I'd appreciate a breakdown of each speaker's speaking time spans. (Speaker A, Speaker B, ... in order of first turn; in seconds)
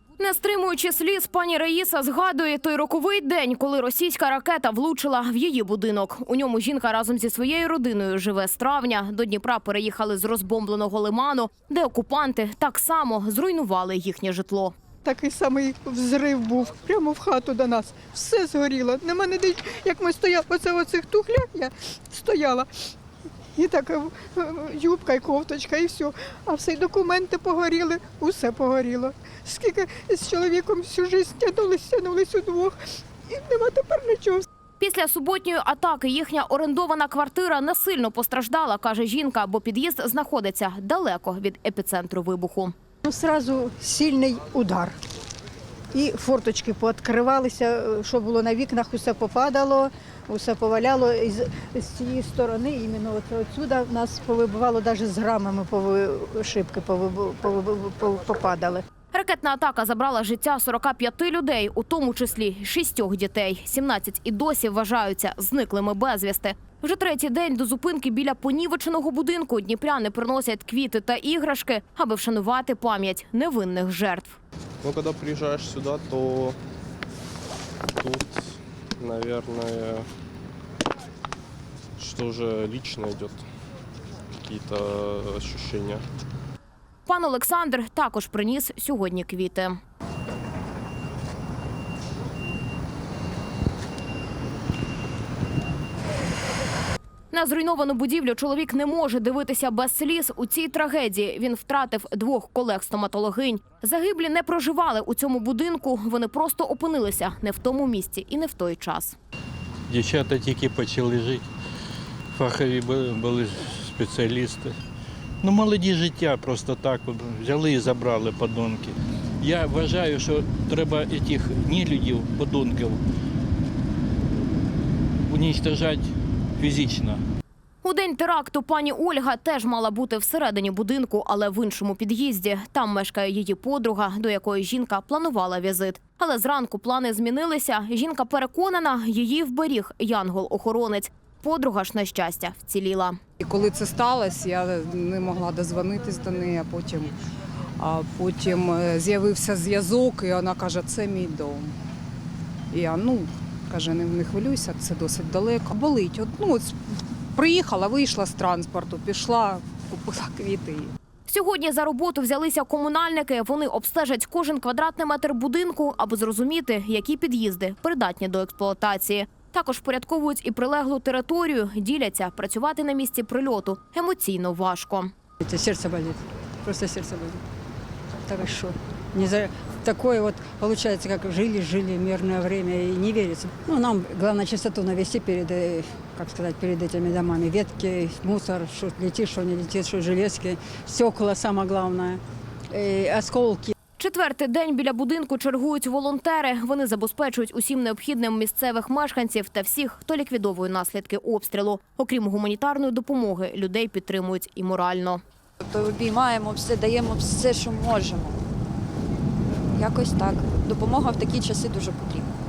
Speaker A: 0.2-14.7, 34.8-42.7, 59.1-74.4, 87.1-89.8, 97.3-109.2, 127.8-143.2, 161.3-175.1, 194.0-205.2
Speaker B: 15.0-22.7, 23.6-32.8, 33.3-34.5, 43.0-45.0, 45.9-58.8
Speaker C: 74.8-76.6, 77.9-80.1, 82.0-83.5, 84.4-86.0
Speaker D: 109.9-111.5, 112.3-114.8, 115.4-123.0, 125.3-127.2
Speaker E: 143.4-147.1, 147.8-151.8, 152.7-160.9
Speaker F: 175.4-177.4, 178.3-192.2, 192.7-193.8
Speaker G: 205.6-208.4, 209.6-212.3